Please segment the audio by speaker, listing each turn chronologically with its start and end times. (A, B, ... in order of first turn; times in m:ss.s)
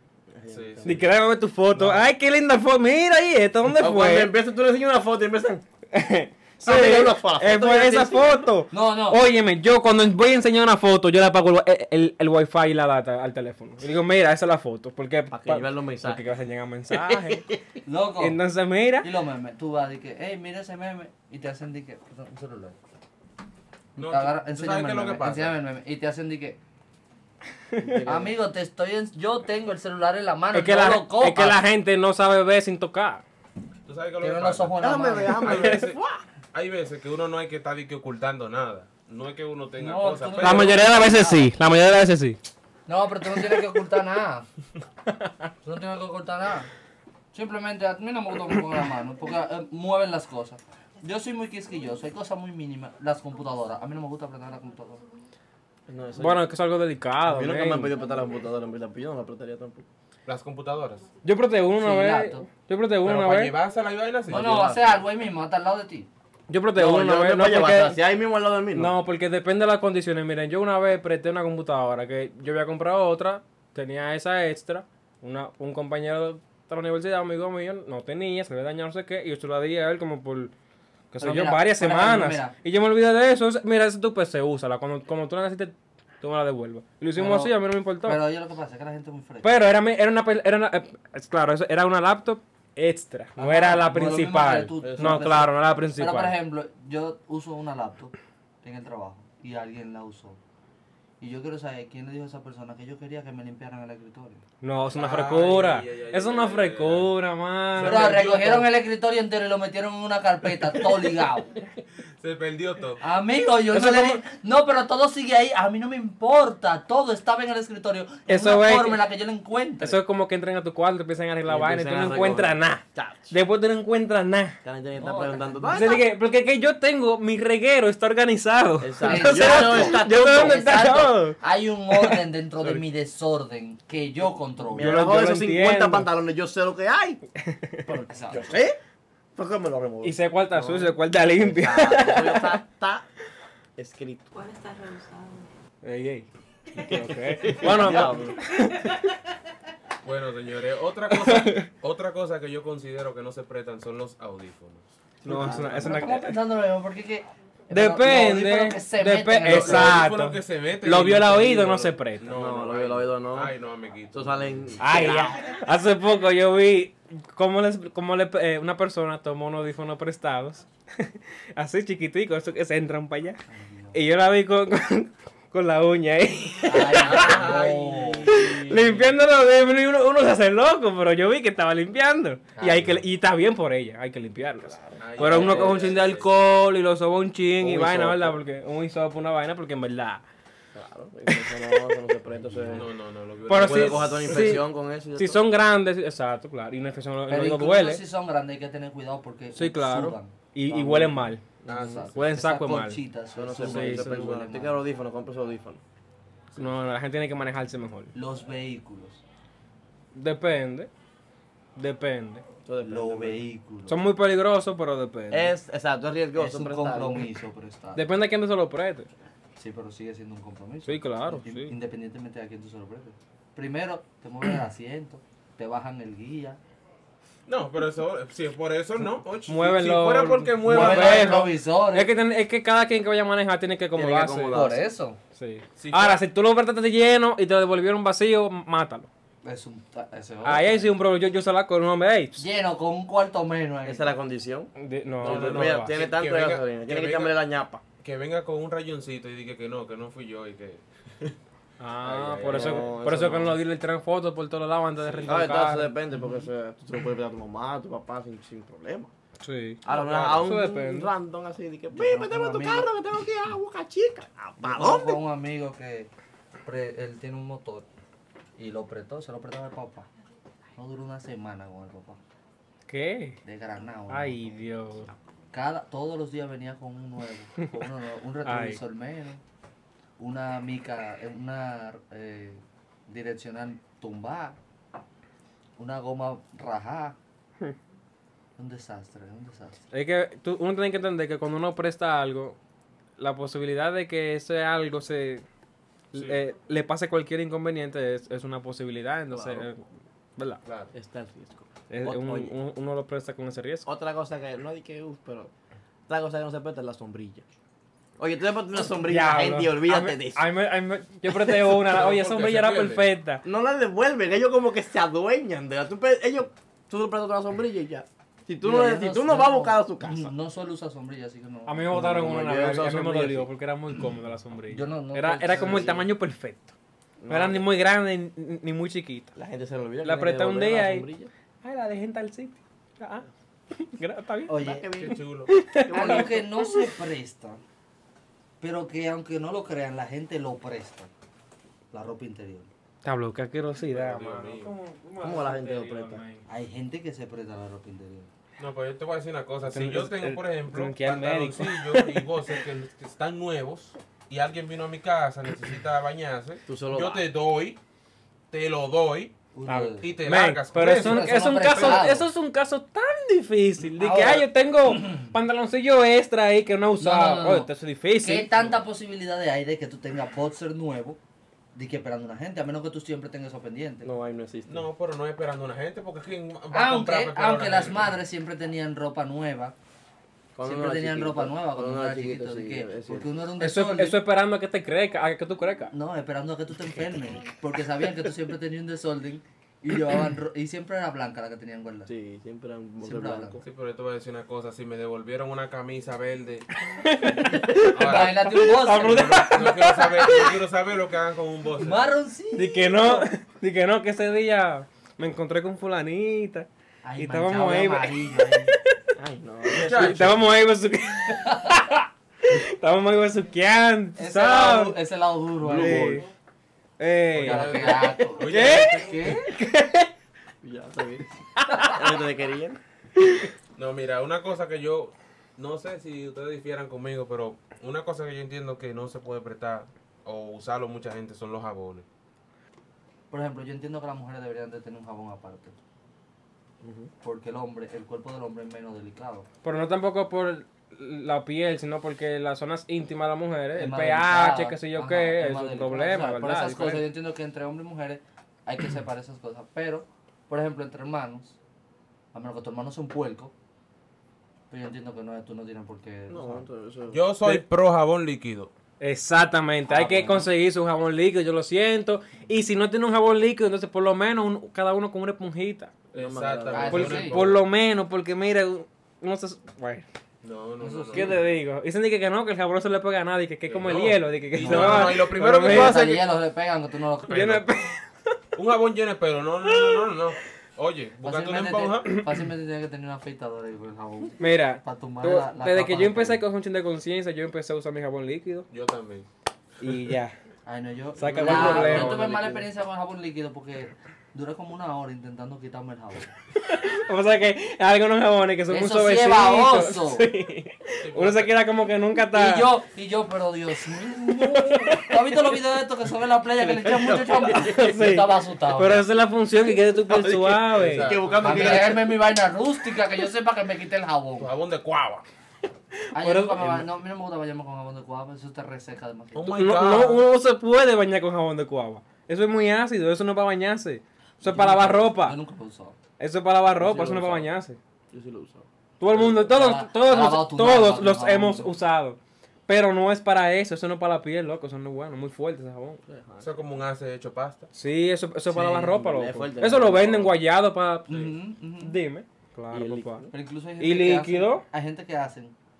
0:00.3-0:01.1 A
0:00.5-0:01.0 B
0:00.8-0:04.3 C
0:01.7-0:02.0 D
0:03.6-0:05.6 A
0:05.9-0:17.4 C
0:06.6-0:08.3 A
0:08.7-0:09.2 D
0:15.3-0:16.2 A
0:16.9-0:17.6 A
0:17.8-0:18.4 D
0:18.2-0:19.1 C
0:19.0-0:22.8 D
0:24.0-0:25.6 B
0:24.0-0:26.6 D
0:27.8-0:28.3 A
0:28.0-0:31.6 D
0:30.5-0:33.2 C
0:33.8-0:34.8 B
0:34.2-0:35.4 D
0:34.8-0:36.2 A
0:35.3-0:36.0 B
0:36.5-0:40.9 B
0:39.8-0:41.5 D
0:40.4-0:42.4 C
0:42.9-0:44.4 D
0:45.6-0:46.7 D
0:47.3-0:55.0 D
0:55.9-0:56.4 A
0:56.2-0:57.9 C
0:57.2-0:59.8 A
1:00.2-1:01.1 B
1:01.2-1:03.5 C
1:01.8-1:02.5 D
1:03.0-1:04.4 B
1:04.3-1:05.0 A
1:04.3-1:06.1 D
1:06.5-1:08.0 C
1:06.7-1:09.0 A
1:08.7-1:20.5 C
1:21.1-1:28.2 C
1:21.2-1:22.5 D
1:27.2-1:29.6 D
1:29.4-1:36.4 C
1:33.4-1:40.4 D
1:34.8-1:35.3 A
1:41.2-1:44.4 D
1:44.6-1:48.6 C
1:44.9-1:47.1 B
1:47.7-1:48.6 B
1:47.8-1:51.5 D
1:52.2-1:53.0 B
1:53.0-2:00.0 D
1:53.7-1:54.2 C
1:58.3-1:59.0 C
1:59.8-2:04.5 C
2:01.4-2:03.4 A
2:04.6-2:06.1 A
2:05.0-2:06.0 D
2:05.7-2:11.4 C
2:08.8-2:10.6 A
2:09.0-2:15.0 D
2:11.9-2:12.2 C
2:14.7-2:17.2 A
2:14.8-2:16.1 C
2:17.4-2:17.9 C
2:17.8-2:18.8 A
2:18.1-2:18.6 D
2:19.4-2:23.0 A
2:20.0-2:22.6 C
2:23.8-2:24.3 A
2:24.3-2:25.5 E
2:25.8-2:26.3 C
2:26.8-2:27.7 E
2:26.8-2:28.4 A
2:26.8-2:29.0 C
2:28.6-2:29.0 E
2:30.0-2:35.0 B
2:31.1-2:31.7 C
2:35.2-2:36.0 A
2:35.2-2:36.4 C
2:35.4-2:40.1 D
2:37.7-2:42.3 C
2:39.4-2:44.7 B
2:42.3-2:43.5 A
2:44.1-2:45.6 A
2:44.8-2:53.4 C
2:53.5-2:54.0 D
2:53.9-2:57.5 C
2:56.6-2:59.1 D
2:56.7-2:59.0 B
2:58.3-3:10.2 C
3:02.6-3:03.0 D
3:04.7-3:06.1 A
3:05.0-3:06.3 B
3:07.6-3:08.4 A
3:10.7-3:12.9 A
3:11.3-3:11.6 C
3:12.7-3:14.6 B
3:13.5-3:18.0 C
3:13.5-3:15.4 A
3:17.3-3:20.4 D
3:19.5-3:21.4 C
3:20.7-3:22.0 A
3:21.7-3:22.1 B
3:21.7-3:24.8 D
3:22.1-3:23.0 C
3:23.3-3:25.8 A
3:23.6-3:24.3 C
3:26.5-3:28.1 C
3:28.1-3:29.2 D
3:30.1-3:30.9 C
3:31.8-3:32.4 C
3:32.6-3:33.4 A
3:32.8-3:34.0 D
3:33.9-3:35.5 C
3:35.3-3:37.3 A
3:36.4-3:38.0 D
3:37.9-3:39.1 C
3:39.6-3:46.6 D
3:40.8-3:41.7 C
3:47.5-3:51.5 B
3:49.5-3:54.7 C
3:50.6-3:52.1 D
3:53.9-3:54.8 A
3:54.5-3:55.2 D
3:55.3-3:59.1 C
3:55.8-3:56.2 B
3:59.4-4:00.9 D
4:00.4-4:02.4 C
4:02.4-4:04.1 D
4:03.8-4:07.8 A
4:04.8-4:06.0 C
4:05.2-4:07.4 B
4:08.0-4:11.4 B
4:11.8-4:15.9 C
4:12.0-4:13.0 B
4:12.4-4:13.6 A
4:15.2-4:19.1 A
4:19.4-4:21.1 C
4:19.8-4:25.2 A
4:19.8-4:20.5 B
4:21.9-4:22.9 D
4:24.6-4:26.1 D
4:26.6-4:27.8 D
4:28.6-4:30.1 D
4:30.8-4:32.2 D
4:32.9-4:33.4 C
4:33.4-4:34.6 D
4:34.1-4:35.1 C
4:35.5-4:39.4 D
4:38.4-4:38.8 C
4:40.2-4:44.6 D
4:45.8-4:47.2 D
4:48.6-4:49.8 D
4:49.9-4:52.6 C
4:53.2-4:55.4 C
4:56.1-4:56.4 B
4:56.1-4:59.8 C
4:59.3-4:59.7 A
5:00.6-5:00.9 B
5:00.9-5:02.5 A
5:01.9-5:03.9 C
5:03.8-5:05.5 A
5:06.1-5:07.4 A
5:08.2-5:10.5 A
5:08.8-5:13.4 C
5:11.3-5:11.6 A
5:11.7-5:13.1 B
5:13.4-5:20.3 A
5:18.6-5:21.9 D
5:21.7-5:26.7 C
5:21.9-5:23.5 A
5:24.7-5:26.0 D
5:25.5-5:26.0 A
5:27.2-5:27.7 A
5:27.3-5:29.3 C
5:29.3-5:31.3 A
5:30.0-5:31.0 C
5:31.6-5:34.6 C
5:34.5-5:35.1 D
5:34.6-5:36.5 A
5:35.0-5:35.5 B
5:35.5-5:36.9 C
5:35.9-5:37.6 D
5:38.6-5:41.1 D
5:41.9-5:42.7 D
5:43.0-5:46.4 C
5:43.8-5:44.7 B
5:45.2-5:46.2 A
5:46.4-5:48.3 D
5:48.6-5:57.8 B
5:49.6-5:52.3 C
5:56.7-5:57.2 A
5:58.5-5:59.3 B
5:59.5-6:00.1 D
5:59.7-6:08.7 C
6:00.0-6:02.2 B
6:00.9-6:02.2 D
6:03.8-6:04.5 D
6:07.0-6:07.7 D
6:08.2-6:11.2 D
6:11.7-6:14.1 D
6:14.0-6:14.9 A
6:14.7-6:18.1 B
6:16.7-6:19.7 D
6:20.6-6:23.3 A
6:20.6-6:24.2 D
6:23.6-6:25.9 C
6:25.9-6:32.1 D
6:32.1-6:33.6 A
6:33.0-6:33.6 D
6:33.6-6:36.7 B
6:36.9-6:40.5 C
6:37.8-6:38.4 B
6:37.8-6:39.5 D
6:39.0-6:42.1 B
6:41.8-6:43.3 D
6:42.6-6:46.7 C
6:47.0-6:48.7 D
6:47.2-6:48.3 C
6:49.2-6:50.5 A
6:49.8-6:50.4 B
6:49.8-6:55.0 C
6:54.2-6:56.2 D
6:55.6-6:56.2 A
6:55.7-6:56.2 C
6:57.0-7:00.1 C
6:57.3-6:59.4 B
6:57.4-6:59.5 D
7:00.6-7:01.3 A
7:01.6-7:02.0 C
7:01.8-7:02.8 A
7:03.2-7:03.5 C
7:03.8-7:12.0 B
7:13.3-7:15.7 D
7:16.8-7:17.1 A
7:17.2-7:19.5 D
7:19.6-7:27.0 C
7:23.7-7:31.6 D
7:32.3-7:33.5 D
7:34.7-7:36.6 D
7:36.3-7:37.2 A
7:37.1-7:38.7 B
7:39.0-7:45.9 C
7:39.9-7:40.5 D
7:46.1-7:47.7 B
7:46.1-7:47.4 A
7:46.7-7:47.4 D
7:46.9-7:50.0 C
7:50.4-7:51.4 B
7:50.8-7:51.4 D
7:51.1-7:56.1 C
7:53.7-7:56.2 B
7:54.6-7:57.6 D
7:57.3-7:58.4 C
7:58.5-8:02.2 B
7:59.8-8:00.1 C
8:01.2-8:06.4 D
8:02.1-8:02.4 C
8:04.4-8:08.6 C
8:08.7-8:09.2 B
8:09.8-8:10.3 C
8:10.6-8:16.3 D
8:11.2-8:12.3 C
8:11.2-8:12.5 B
8:11.3-8:12.6 A
8:16.6-8:22.7 C
8:18.7-8:20.3 D
8:21.0-8:21.6 B
8:22.3-8:29.1 D
8:24.3-8:25.4 C
8:26.7-8:27.5 A
8:27.5-8:31.2 C
8:30.0-8:32.1 A
8:30.7-8:31.8 B
8:31.4-8:34.5 D
8:34.4-8:35.2 B
8:36.1-8:39.7 D
8:36.1-8:36.7 C
8:39.3-8:40.2 B
8:39.5-8:45.4 C
8:44.4-8:46.0 D
8:46.2-8:47.8 C
8:46.7-8:47.5 A
8:48.1-8:49.5 A
8:49.0-8:56.0 C
8:49.2-8:51.7 D
8:56.1-8:56.7 A
8:56.4-8:57.7 B
8:57.7-9:04.6 C
8:58.5-8:59.0 D
8:58.6-9:00.4 A
9:01.1-9:02.0 D
9:02.7-9:03.3 A
9:03.3-9:05.5 D